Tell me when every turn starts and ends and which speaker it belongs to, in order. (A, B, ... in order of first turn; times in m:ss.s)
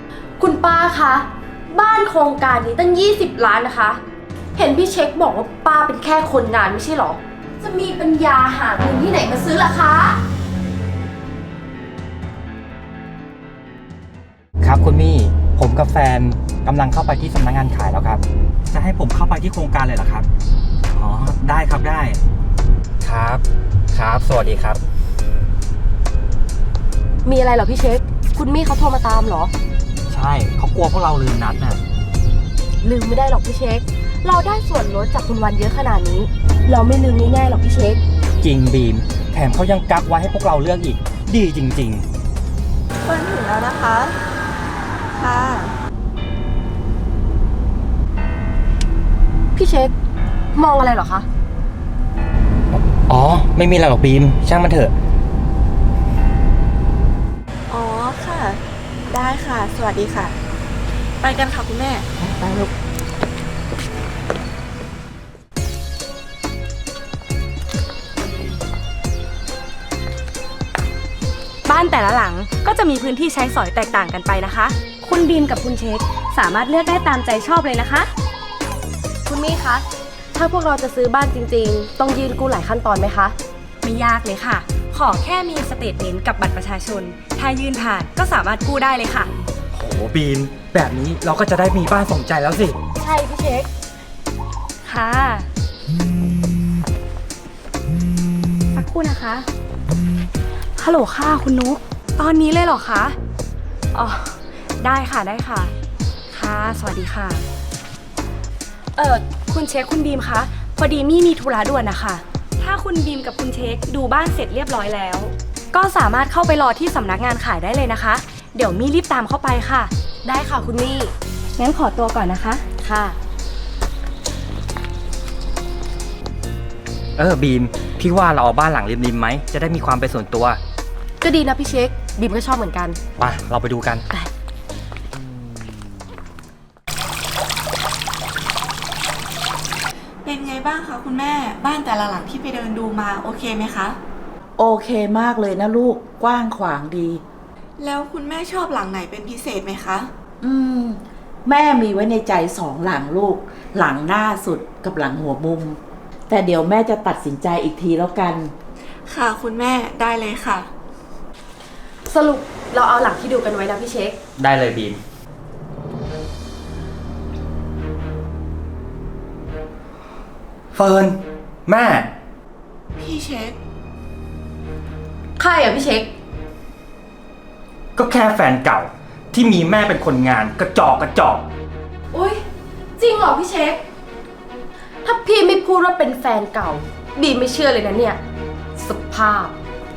0:00.4-0:04.0 A
0:04.6-0:10.2 A
0:14.6-0:20.3 B
0:20.9-0:22.2 B
0:23.0-0:24.8 B
0:27.2-0:29.5 A
0:30.1-0:31.8 B
0:32.8-0:38.0 A
0:38.4-0:42.1 B
0:43.1-0:44.2 C
0:45.2-0:45.8 C
0:49.6-0:49.9 A
0:50.6-0:51.3 A
0:52.8-0:54.9 B
0:57.7-1:00.3 C
1:01.2-1:02.0 C
1:02.2-1:02.7 D
1:11.6-1:18.1 E
1:19.3-1:23.4 A
1:23.8-1:29.4 E
1:29.7-1:32.8 B
1:33.0-1:33.7 A
1:34.8-1:35.5 E
1:38.8-1:39.5 E
1:40.8-1:43.2 E
1:43.9-1:45.7 E
1:46.3-1:47.5 E
1:49.0-1:59.9 E
2:00.2-2:01.1 A
2:01.6-2:02.7 E
2:02.8-2:03.2 A
2:07.2-2:10.6 B
2:11.2-2:13.0 A
2:13.2-2:14.0 B
2:20.2-2:24.0 C
2:24.6-2:27.2 D
2:27.8-2:30.1 C
2:30.4-2:35.8 D
2:36.3-2:38.5 D
2:39.1-2:40.7 C
2:42.1-2:44.2 A
2:44.4-2:45.0 B
2:50.7-2:52.1 B
2:53.0-2:53.6 C
2:55.4-2:56.1 A
2:58.0-3:01.5 B
3:02.1-3:02.4 A
3:03.0-3:03.8 A
3:05.0-3:08.2 A
3:08.8-3:09.5 A